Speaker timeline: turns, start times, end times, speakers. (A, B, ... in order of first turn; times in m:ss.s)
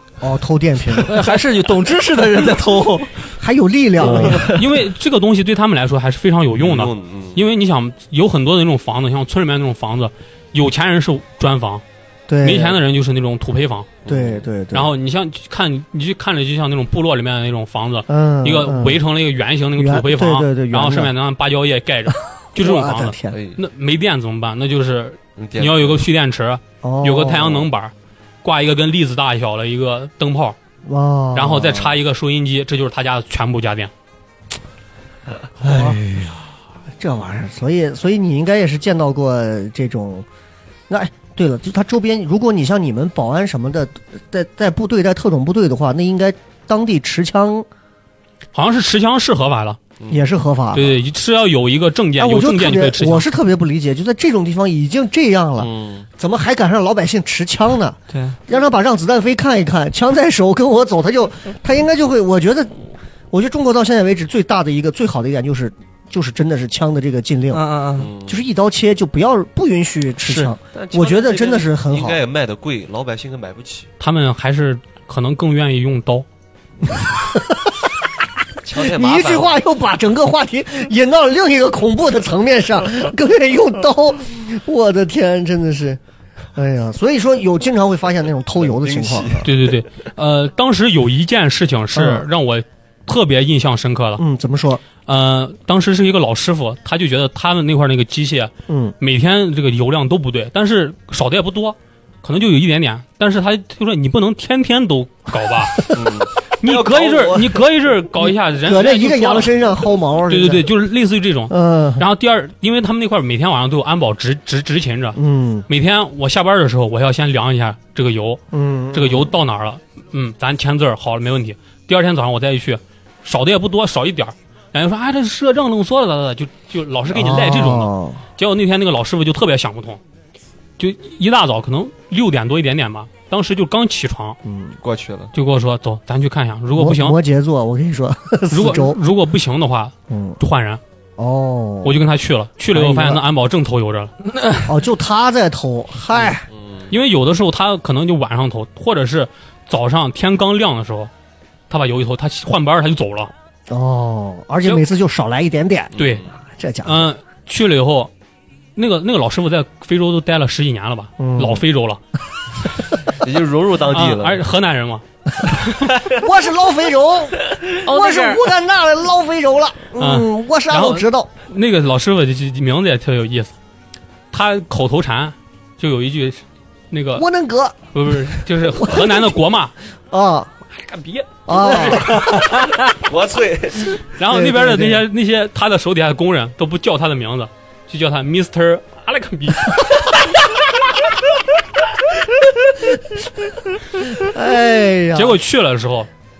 0:00.2-0:01.2 A
0:01.0-0:03.3 B
0:03.4-0:04.5 A
0:04.0-0:04.4 B
0:04.5-0:11.8 C
0:06.6-0:07.4 D
0:12.3-0:12.8 A
0:12.4-0:13.9 C
0:14.0-0:14.4 D
0:14.0-0:14.9 A
0:14.7-0:30.6 C
0:18.1-0:19.0 A
0:19.8-0:21.1 A
0:22.5-0:23.4 A
0:23.3-0:23.6 D
0:25.4-0:26.0 D
0:26.8-0:27.7 A
0:30.8-0:31.9 A
0:31.3-0:33.9 C
0:35.6-0:40.2 A
0:40.9-0:47.7 A
0:48.5-0:49.8 C
0:50.1-0:51.0 A
0:50.7-0:53.3 C
0:52.2-1:02.7 A
0:55.6-0:56.1 D
0:58.1-0:58.4 B
1:03.3-1:07.6 A
1:07.5-1:08.1 B
1:08.0-1:08.4 D
1:08.2-1:12.2 A
1:10.3-1:13.9 D
1:14.0-1:16.2 C
1:17.2-1:17.9 A
1:18.6-1:19.6 D
1:18.7-1:26.0 A
1:26.5-1:29.5 A
1:28.6-1:29.6 D
1:29.4-1:34.2 C
1:31.9-1:32.2 A
1:34.2-1:34.8 A
1:35.0-1:45.9 C
1:38.7-1:39.0 A
1:45.9-1:47.6 D
1:46.6-1:49.6 C
1:48.2-1:50.7 A
1:50.3-1:58.4 C
1:51.5-1:52.0 A
1:55.1-1:55.7 A
1:58.5-1:59.3 A
1:58.9-2:10.0 C
2:07.1-2:08.2 A
2:10.8-2:14.4 C
2:14.4-2:14.8 A
2:14.8-2:15.3 D
2:15.3-2:17.2 C
2:16.7-2:19.0 A
2:18.5-2:20.8 C
2:20.1-2:20.4 A
2:21.2-2:22.0 A
2:21.8-2:24.1 C
2:22.7-2:23.2 A
2:24.3-2:24.6 B
2:24.6-2:26.4 A
2:26.5-2:26.9 D
2:26.9-2:31.1 C
2:31.7-2:33.3 C
2:33.7-2:37.1 A
2:35.9-2:36.3 D
2:36.0-2:36.2 C
2:36.8-2:38.1 C
2:38.8-2:42.0 C
2:41.2-2:41.6 A
2:43.2-2:44.4 D
2:43.9-2:45.9 C
2:46.0-2:51.3 A
2:47.8-2:48.4 B
2:50.0-2:53.5 C
2:54.3-2:57.2 C
2:57.2-2:57.8 A
2:57.9-2:59.7 C
2:58.7-2:59.3 A
3:00.1-3:00.5 A
3:00.7-3:02.2 C
3:01.4-3:02.3 A
3:02.9-3:04.0 D
3:04.1-3:10.0 C
3:04.3-3:05.0 A
3:14.1-3:15.4 A
3:15.1-3:16.1 C